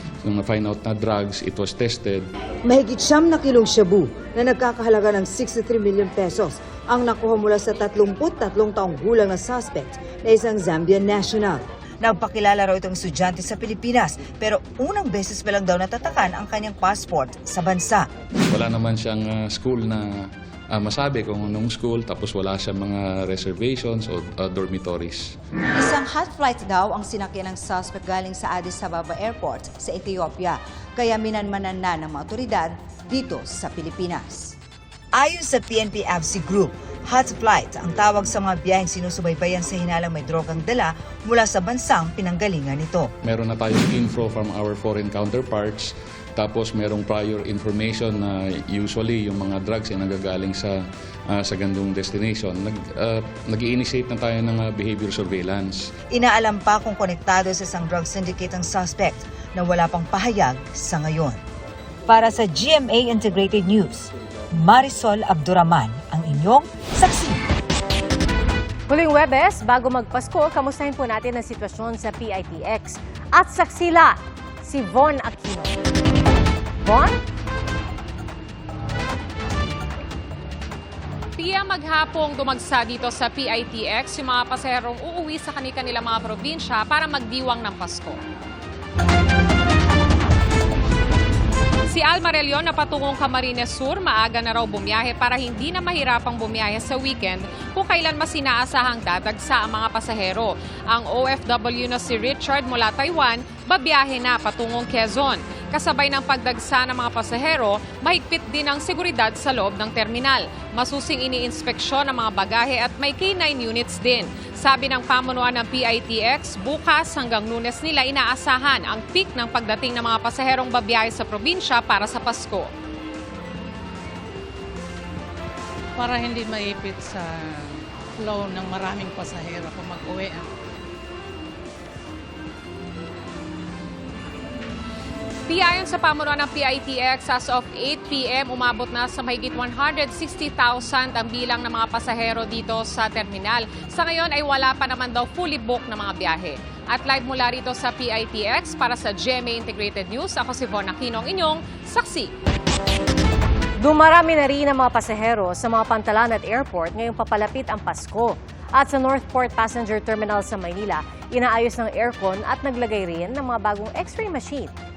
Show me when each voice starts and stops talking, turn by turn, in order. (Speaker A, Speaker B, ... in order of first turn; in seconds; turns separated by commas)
Speaker A: 0.2-2.3, Speaker B: 2.6-18.1, Speaker A: 18.5-25.3, Speaker B: 25.7-34.5, Speaker B: 35.1-43.1, Speaker A: 43.2-50.7, Speaker A: 51.3-55.9, Speaker B: 56.1-61.4, Speaker B: 62.1-67.4, Speaker C: 68.9-75.7, Speaker C: 76.8-77.2, Speaker D: 81.4-88.2, Speaker D: 91.9-122.7, Speaker E: 126.0-127.5, Speaker E: 128.2-130.4, Speaker D: 135.5-152.3, Speaker C: 153.8-164.7